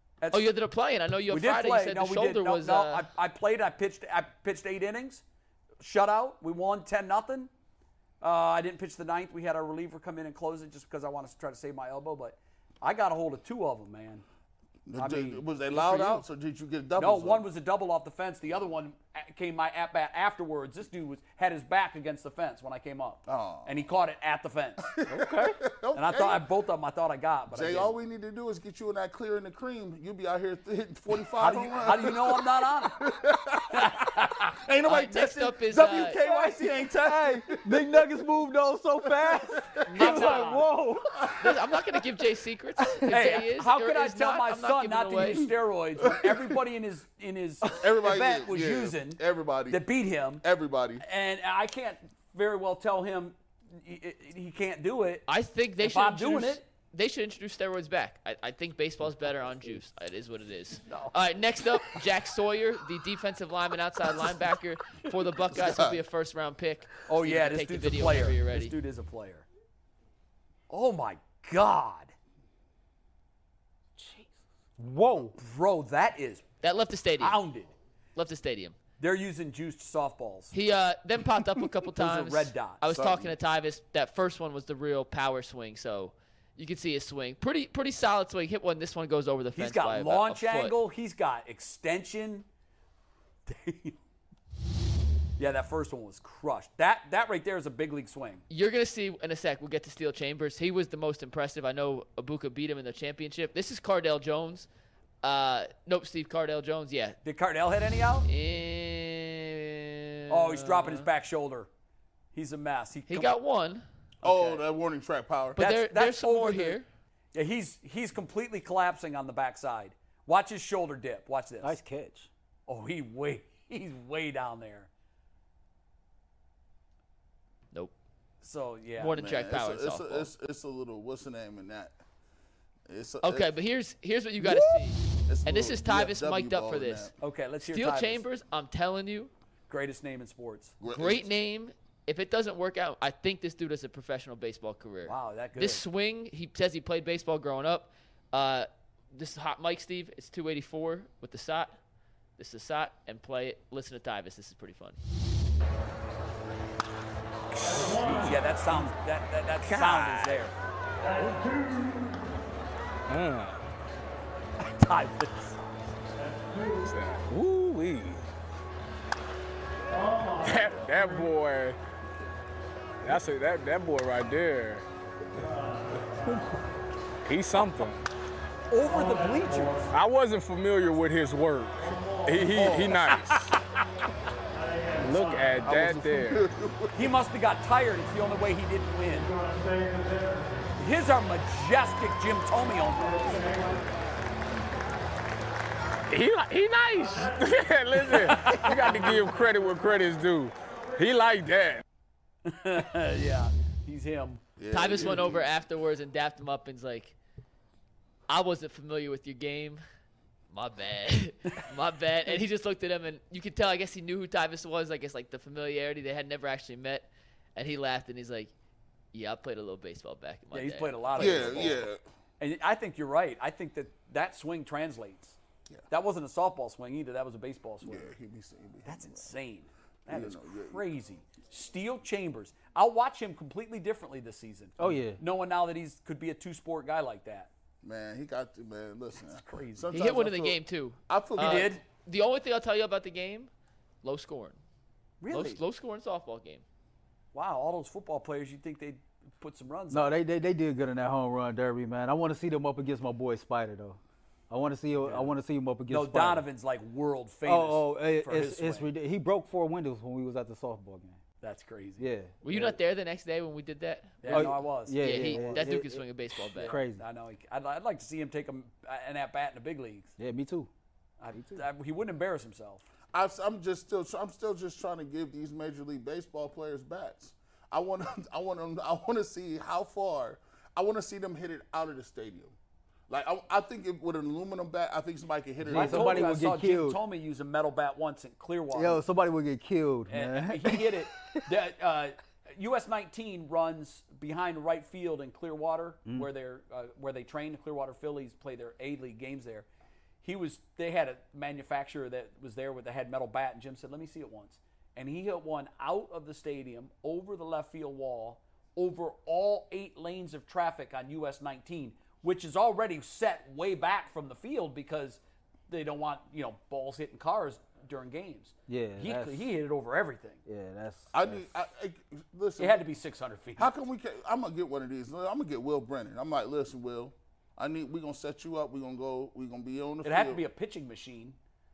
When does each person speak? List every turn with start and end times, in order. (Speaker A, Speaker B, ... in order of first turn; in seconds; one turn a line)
Speaker A: 0.2-0.6
Speaker B: 0.3-3.1
Speaker A: 1.3-5.2
Speaker A: 5.8-7.5
Speaker A: 8.2-14.2
Speaker C: 14.8-17.4
Speaker A: 14.9-16.2
Speaker A: 16.9-24.9
Speaker C: 23.3-23.7
Speaker C: 24.8-26.4
Speaker D: 25.1-25.6
Speaker A: 25.9-27.9
Speaker C: 27.5-38.0
Speaker A: 31.4-33.0
Speaker A: 33.7-34.6
Speaker B: 34.8-36.2
Speaker D: 36.1-41.2
Speaker C: 39.2-39.7
Speaker A: 39.9-40.7
Speaker B: 39.9-40.6
Speaker C: 41.1-42.0
Speaker B: 41.4-45.5
Speaker D: 42.8-43.1
Speaker A: 43.0-50.4
Speaker C: 46.0-46.4
Speaker C: 47.8-51.0
Speaker A: 51.0-55.2
Speaker B: 55.3-68.7
Speaker A: 55.8-56.6
Speaker A: 60.9-61.1
Speaker C: 65.5-66.0
Speaker A: 67.0-69.5
Speaker A: 70.7-72.1
Speaker D: 74.0-75.3
Speaker A: 75.3-76.4
Speaker B: 76.6-77.4
Speaker A: 77.2-77.7
Speaker B: 78.2-78.8
Speaker A: 79.0-80.5
Speaker B: 80.5-90.8
Speaker A: 81.9-82.8
Speaker C: 82.9-83.3
Speaker A: 89.5-92.5
Speaker A: 93.5-94.0
Speaker A: 95.4-98.4
Speaker B: 98.5-104.7
Speaker B: 105.2-107.2
Speaker A: 107.2-108.3
Speaker B: 108.2-111.1
Speaker A: 110.3-111.7
Speaker A: 112.3-113.3
Speaker B: 113.1-113.8
Speaker A: 114.2-114.6
Speaker C: 114.2-115.6
Speaker A: 115.5-116.8
Speaker B: 115.5-116.8
Speaker A: 117.3-121.8
Speaker D: 121.6-122.3
Speaker A: 122.7-124.9
Speaker A: 128.4-129.2
Speaker B: 129.0-130.3
Speaker C: 129.0-132.0
Speaker C: 132.9-133.5
Speaker B: 133.2-139.3
Speaker C: 134.4-137.1
Speaker A: 137.2-138.2
Speaker A: 139.7-140.7
Speaker C: 140.8-141.3
Speaker B: 140.9-151.7
Speaker A: 145.0-145.8
Speaker B: 152.4-155.0
Speaker A: 157.7-160.6
Speaker E: 158.1-158.3
Speaker E: 159.6-160.4
Speaker E: 161.2-161.6
Speaker E: 163.1-163.6
Speaker A: 164.6-165.6
Speaker E: 166.8-168.2
Speaker E: 170.4-171.8
Speaker E: 173.0-174.8
Speaker E: 177.2-178.0
Speaker A: 178.7-179.9
Speaker E: 179.9-183.5
Speaker C: 182.6-183.1
Speaker A: 183.1-183.5
Speaker E: 185.0-186.4
Speaker C: 185.6-187.1
Speaker A: 186.9-189.3
Speaker A: 190.8-193.8
Speaker E: 196.1-201.8
Speaker A: 198.1-198.8
Speaker A: 202.4-204.4
Speaker C: 204.6-205.5
Speaker B: 204.7-207.1
Speaker B: 208.3-209.8
Speaker B: 210.5-218.5
Speaker B: 219.1-221.8
Speaker A: 220.5-221.8
Speaker C: 221.2-222.0
Speaker A: 222.4-225.4
Speaker A: 225.9-228.1
Speaker C: 227.8-229.3
Speaker A: 228.8-237.5
Speaker C: 230.1-230.8
Speaker D: 234.8-235.2
Speaker C: 237.8-241.8
Speaker A: 239.2-239.9
Speaker B: 239.9-243.5
Speaker A: 241.4-241.8
Speaker B: 244.0-244.6
Speaker A: 245.2-245.6
Speaker B: 245.3-246.6
Speaker A: 247.3-250.1
Speaker D: 249.9-254.0
Speaker D: 254.5-256.4
Speaker A: 255.0-255.3
Speaker A: 255.9-258.9
Speaker D: 257.4-261.2
Speaker A: 261.4-262.1
Speaker D: 262.0-262.7
Speaker B: 262.4-266.8
Speaker A: 264.2-265.7
Speaker D: 264.3-266.1
Speaker A: 266.5-270.1
Speaker D: 266.6-267.0
Speaker D: 270.2-270.7
Speaker A: 271.2-272.8
Speaker D: 271.3-271.6
Speaker C: 273.1-282.5
Speaker C: 283.1-286.3
Speaker D: 285.6-287.0
Speaker A: 285.7-289.0
Speaker D: 288.7-291.4
Speaker A: 290.1-299.6
Speaker A: 300.2-320.4
Speaker D: 318.7-319.5
Speaker D: 320.4-321.5
Speaker C: 321.1-322.8
Speaker A: 322.6-323.7
Speaker C: 323.6-330.4
Speaker A: 330.0-331.4